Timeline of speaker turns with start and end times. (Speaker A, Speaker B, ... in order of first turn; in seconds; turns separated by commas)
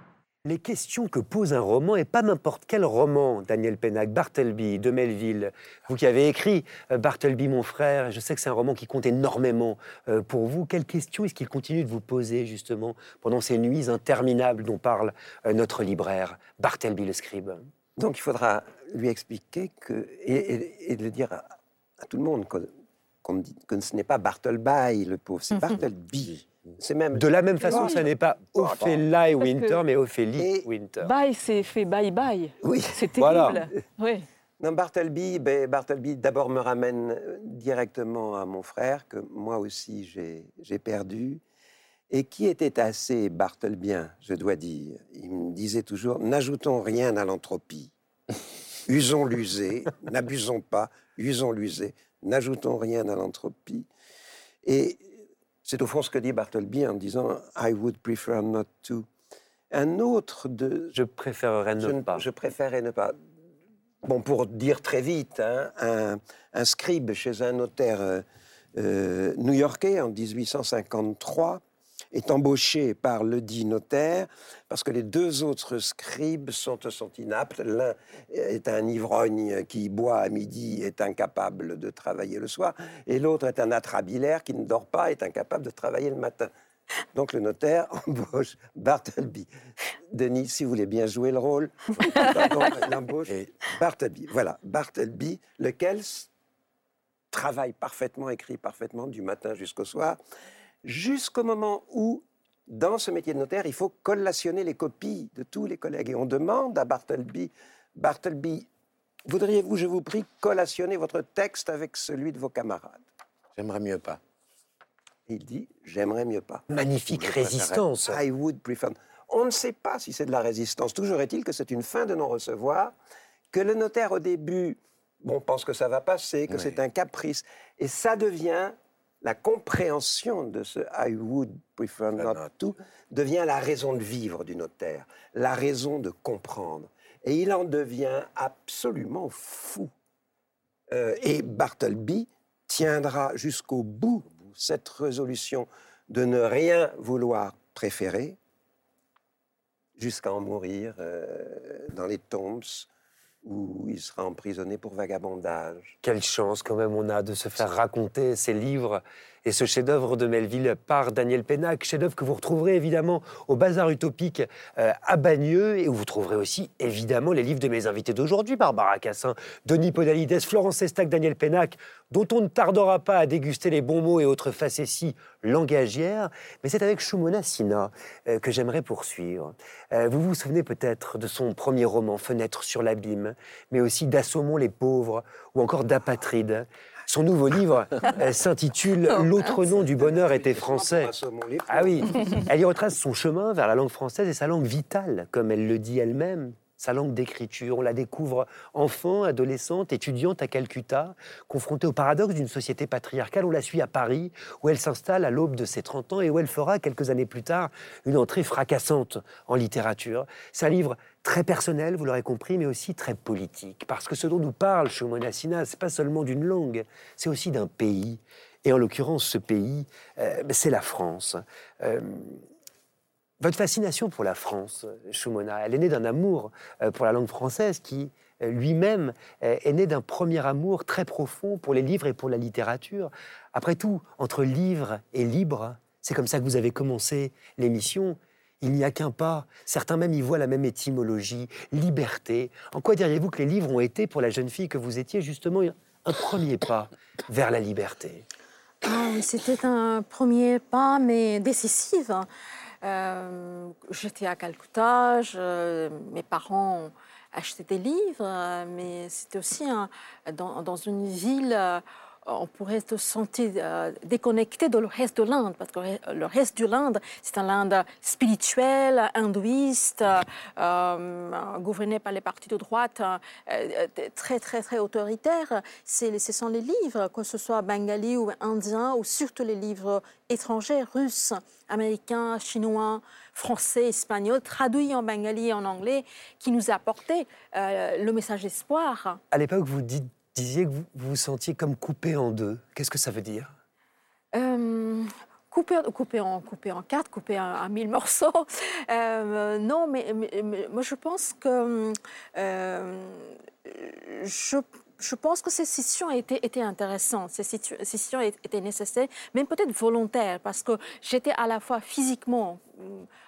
Speaker A: 0.4-17.7, Speaker B: 18.0-21.4, Speaker B: 22.0-22.7, Speaker B: 23.2-29.0, Speaker A: 27.1-31.1, Speaker C: 27.6-28.0, Speaker C: 29.4-29.8, Speaker B: 30.4-30.7, Speaker C: 31.0-34.2, Speaker B: 32.6-33.7, Speaker A: 33.2-33.6, Speaker B: 34.6-41.4, Speaker B: 42.1-47.9, Speaker B: 48.9-53.9, Speaker B: 54.6-55.0, Speaker B: 55.6-59.1, Speaker B: 59.7-60.9, Speaker A: 60.9-62.2, Speaker B: 61.8-63.2, Speaker B: 64.0-68.2, Speaker B: 68.8-71.6, Speaker B: 72.1-86.5, Speaker B: 87.1-89.5, Speaker B: 90.1-96.3, Speaker B: 97.3-100.2, Speaker B: 100.8-108.7, Speaker B: 109.3-113.0, Speaker D: 113.5-114.2, Speaker B: 115.3-116.6, Speaker A: 116.7-118.2, Speaker D: 117.1-117.8, Speaker B: 118.0-122.9, Speaker B: 123.5-139.9, Speaker D: 126.5-126.8, Speaker D: 132.2-132.5, Speaker B: 140.9-148.4, Speaker B: 150.0-152.9, Speaker B: 153.4-155.9, Speaker A: 156.0-191.1, Speaker B: 189.4-192.4, Speaker A: 191.7-222.4, Speaker A: 223.4-248.2, Speaker E: 248.8-252.3, Speaker E: 252.8-289.2, Speaker A: 289.3-293.5, Speaker E: 294.3-313.1